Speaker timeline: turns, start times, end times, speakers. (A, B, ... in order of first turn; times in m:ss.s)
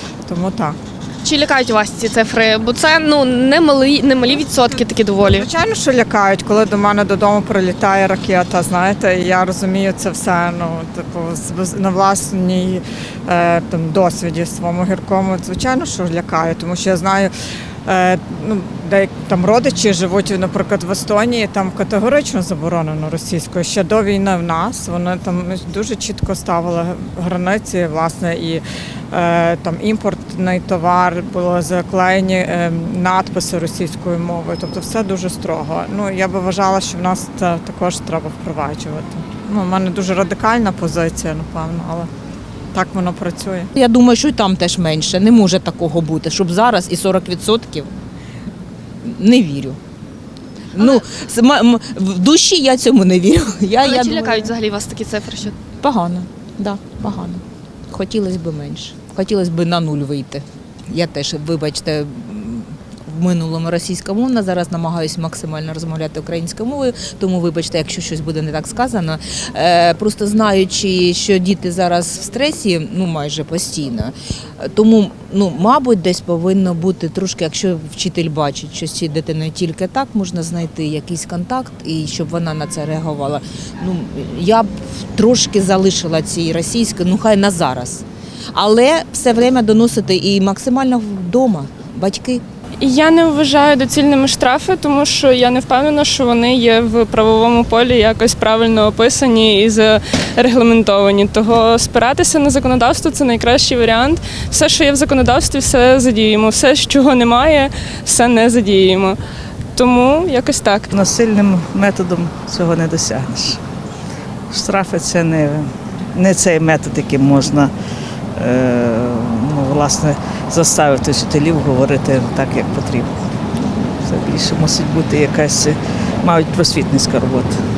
0:00.3-0:00.8 A
0:01.2-0:05.5 B
0:05.2-0:17.3 A
0:17.8-0:42.1 A
0:42.7-0:43.7 A
0:43.7-0:47.9 C
0:49.0-0:49.8 C
0:50.7-0:54.5 C
0:53.8-0:55.6 B
0:55.8-1:32.4 C
1:32.8-1:49.2 D
1:49.8-1:50.9 D
1:50.9-1:53.6 E
1:54.5-1:57.7 E
1:58.4-2:07.6 E